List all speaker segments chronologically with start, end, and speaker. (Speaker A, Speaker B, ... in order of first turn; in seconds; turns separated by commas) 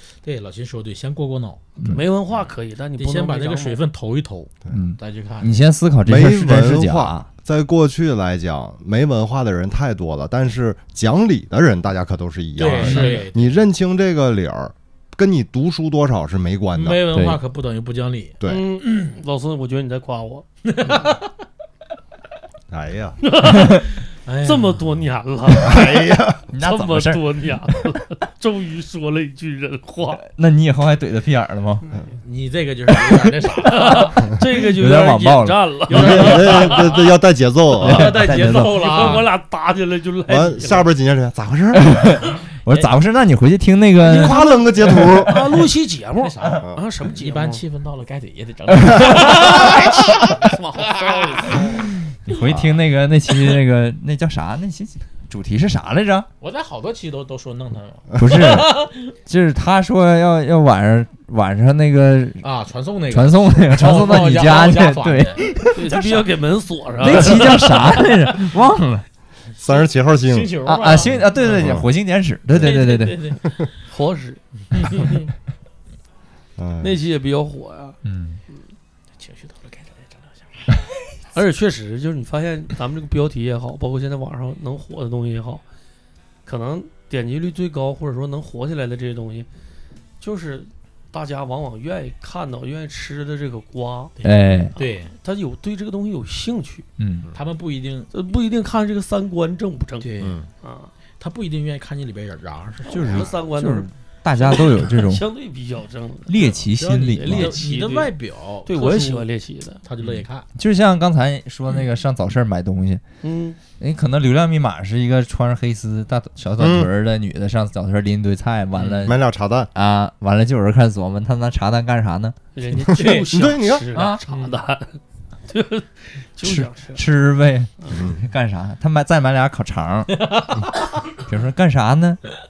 Speaker A: 0.1-1.7, Speaker B: 1.8-3.8, Speaker A: 3.0-5.6, Speaker C: 4.7-7.3, Speaker D: 6.0-17.0, Speaker A: 12.6-13.6, Speaker B: 12.7-13.2, Speaker A: 16.7-19.1, Speaker C: 17.1-17.4, Speaker D: 18.4-18.7, Speaker B: 18.4-20.9, Speaker A: 20.6-21.3, Speaker D: 22.7-23.2, Speaker B: 23.2-26.1, Speaker C: 23.5-23.8, Speaker A: 24.2-24.8, Speaker D: 25.6-26.4, Speaker C: 26.5-27.2, Speaker B: 26.6-30.2, Speaker C: 30.2-31.9, Speaker A: 32.1-34.2, Speaker B: 33.7-37.1, Speaker C: 34.6-36.3, Speaker D: 35.9-38.1, Speaker A: 36.0-36.9, Speaker C: 37.8-39.1, Speaker A: 37.8-39.3, Speaker B: 38.1-40.9, Speaker D: 40.3-42.1, Speaker C: 41.7-44.4, Speaker B: 44.0-47.6, Speaker D: 44.1-45.5, Speaker A: 46.2-51.9, Speaker B: 49.1-51.9, Speaker C: 52.2-56.3, Speaker A: 56.4-59.0, Speaker C: 58.2-62.5, Speaker A: 62.4-65.5, Speaker C: 63.1-66.3, Speaker B: 65.7-68.1, Speaker C: 67.0-69.0, Speaker A: 69.6-71.7, Speaker D: 69.6-70.5, Speaker C: 70.6-73.2, Speaker D: 71.5-71.9, Speaker A: 72.5-73.7, Speaker B: 73.9-74.4, Speaker A: 74.7-75.3, Speaker D: 76.6-77.0, Speaker B: 76.8-78.0, Speaker C: 78.0-78.4, Speaker A: 79.2-80.8, Speaker B: 81.3-85.6, Speaker B: 86.5-89.5, Speaker B: 90.2-96.9, Speaker A: 94.2-95.1, Speaker C: 94.2-94.8, Speaker C: 97.0-97.3, Speaker A: 97.3-98.1, Speaker B: 98.1-100.9, Speaker A: 100.0-100.4, Speaker D: 100.2-100.5, Speaker A: 101.2-103.3, Speaker B: 102.9-109.8, Speaker C: 103.0-105.3, Speaker C: 106.3-107.6, Speaker A: 106.7-109.2, Speaker A: 109.8-110.5, Speaker C: 110.5-113.0, Speaker B: 113.2-113.6, Speaker C: 113.7-119.2, Speaker D: 116.6-116.9, Speaker A: 118.7-119.1, Speaker D: 119.0-119.7, Speaker C: 119.8-122.4, Speaker B: 122.5-127.0, Speaker A: 122.8-123.3, Speaker D: 123.3-123.8, Speaker A: 124.0-124.6, Speaker C: 126.4-130.3, Speaker D: 127.9-128.2, Speaker A: 130.1-130.9, Speaker C: 131.3-132.2